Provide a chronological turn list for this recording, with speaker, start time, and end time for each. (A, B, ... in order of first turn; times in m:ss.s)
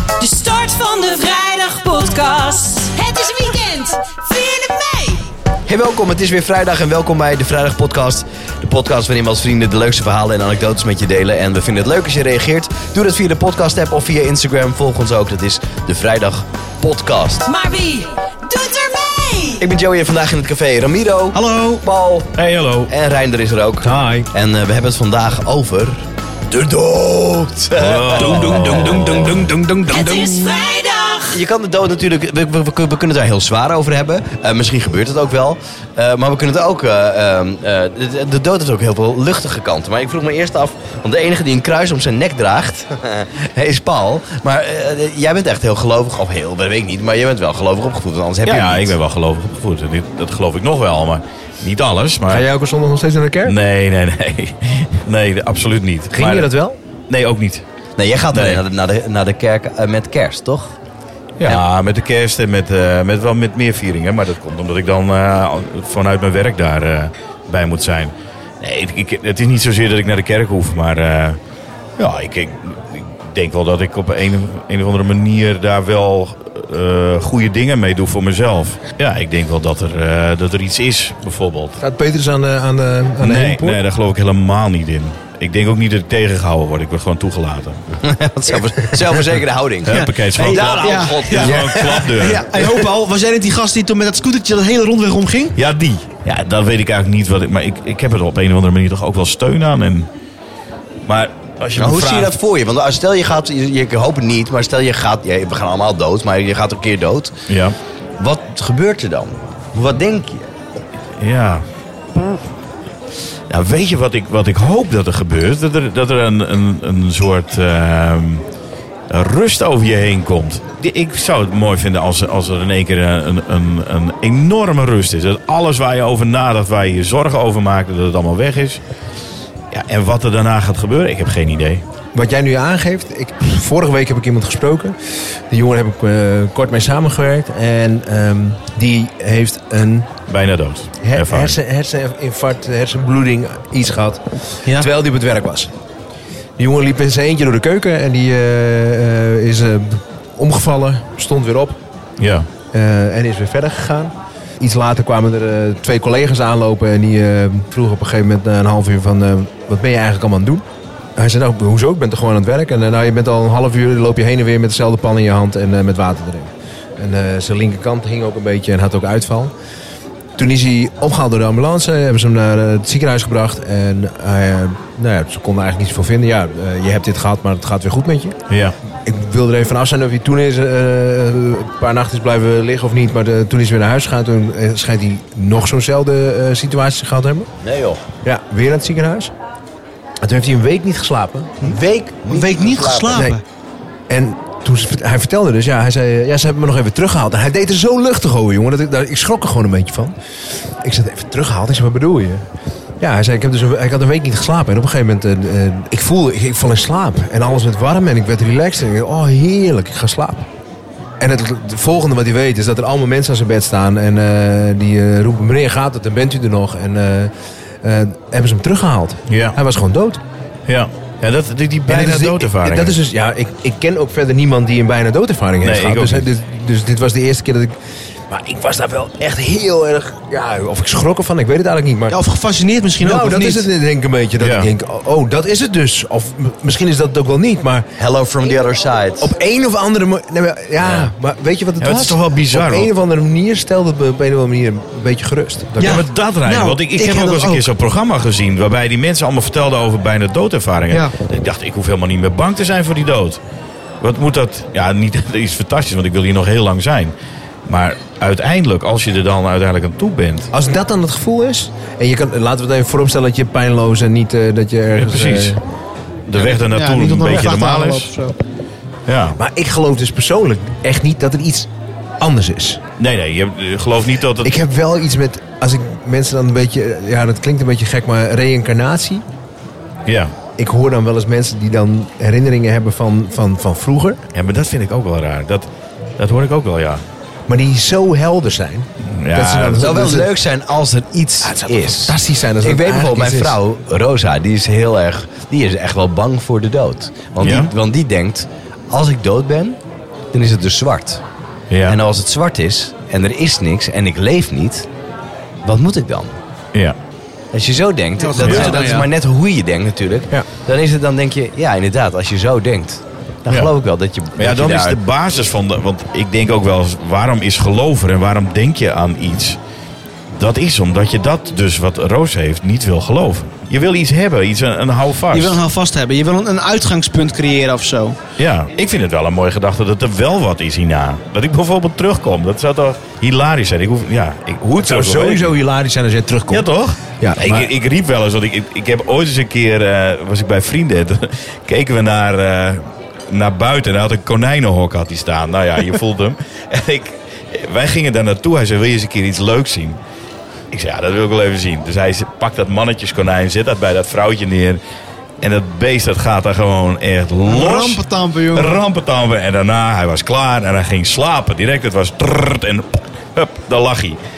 0:00.2-0:05.3 A
0:05.7-0:17.5 B
0:17.4-0:19.6 A
0:19.6-0:22.3 B
0:21.3-0:21.8 C
0:22.4-0:22.9 D
0:22.9-0:29.5 B
0:23.8-0:24.3 E
0:27.8-0:29.4 D
0:28.2-0:30.4 E
0:29.9-0:31.4 A
0:31.3-0:49.0 B
0:48.5-0:52.4 D
0:52.3-0:53.6 E
0:53.4-0:56.5 D
0:56.1-0:56.8 E
0:57.1-0:57.6 D
0:58.0-1:00.7 B
0:58.3-0:58.6 D
1:01.4-1:11.4 D
1:12.0-1:21.8 D
1:21.8-1:23.8 E
1:23.2-1:27.8 D
1:28.0-1:31.6 B
1:29.8-1:32.6 D
1:29.9-1:35.6 C
1:31.4-1:32.0 E
1:35.6-1:40.1 D
1:41.1-1:42.3 D
1:41.8-1:47.3 B
1:47.5-1:47.8 D
1:48.2-1:50.5 B
1:51.2-1:51.6 D
1:53.5-1:58.4 D
1:59.1-2:08.8 D
2:09.7-2:11.8 D
2:12.1-2:15.0 E
2:15.5-2:20.1 E
2:20.3-2:21.6 D
2:21.0-2:25.7 E
2:26.6-2:31.8 E
2:32.2-2:32.5 D
2:32.7-2:40.6 E
2:41.2-2:49.5 E
2:50.4-2:58.4 E
2:58.5-2:58.8 D
2:59.0-3:07.5 E
3:07.6-3:08.0 B
3:08.2-3:09.3 E
3:10.2-3:11.7 E
3:11.6-3:13.3 B
3:11.6-3:13.4 C
3:13.1-3:13.4 E
3:14.1-3:20.2 E
3:20.8-3:22.4 E
3:23.0-3:30.5 E
3:31.2-3:40.2 E
3:39.3-3:39.6 D
3:40.7-3:43.0 D
3:41.9-3:47.8 E
3:45.6-3:46.3 D
3:48.3-3:52.2 E
3:52.1-3:53.7 C
3:53.0-3:57.9 E
3:54.4-3:54.7 D
3:58.0-3:59.3 B
3:59.2-4:06.0 E
4:00.8-4:01.1 D
4:01.8-4:02.9 D
4:05.8-4:07.6 C
4:05.8-4:13.4 D
4:14.0-4:17.1 D
4:17.7-4:20.5 D
4:20.5-4:25.6 E
4:25.0-4:25.6 D
4:26.3-4:28.1 D
4:26.4-4:28.4 C
4:29.1-4:29.4 D
4:29.4-4:32.8 E
4:33.0-4:34.5 D
4:34.4-4:39.2 E
4:40.1-4:40.3 D
4:40.6-4:44.2 E
4:44.3-4:47.0 D
4:47.5-4:50.3 E
4:49.1-4:49.9 D
4:49.7-4:59.8 B
4:51.4-4:53.6 E
4:57.4-4:57.7 D
5:00.3-5:01.2 B
5:01.7-5:02.0 D
5:01.9-5:04.9 B
5:05.6-5:06.4 B
5:07.5-5:15.0 B
5:08.2-5:09.1 C
5:08.4-5:08.8 D
5:14.4-5:19.6 D
5:20.4-5:25.6 D
5:25.3-5:28.2 C
5:28.4-5:35.5 D
5:34.8-5:36.7 E
5:36.5-5:50.0 D
5:37.2-5:37.7 E
5:50.7-5:54.8 D
5:55.4-6:04.2 D
5:57.4-5:58.8 C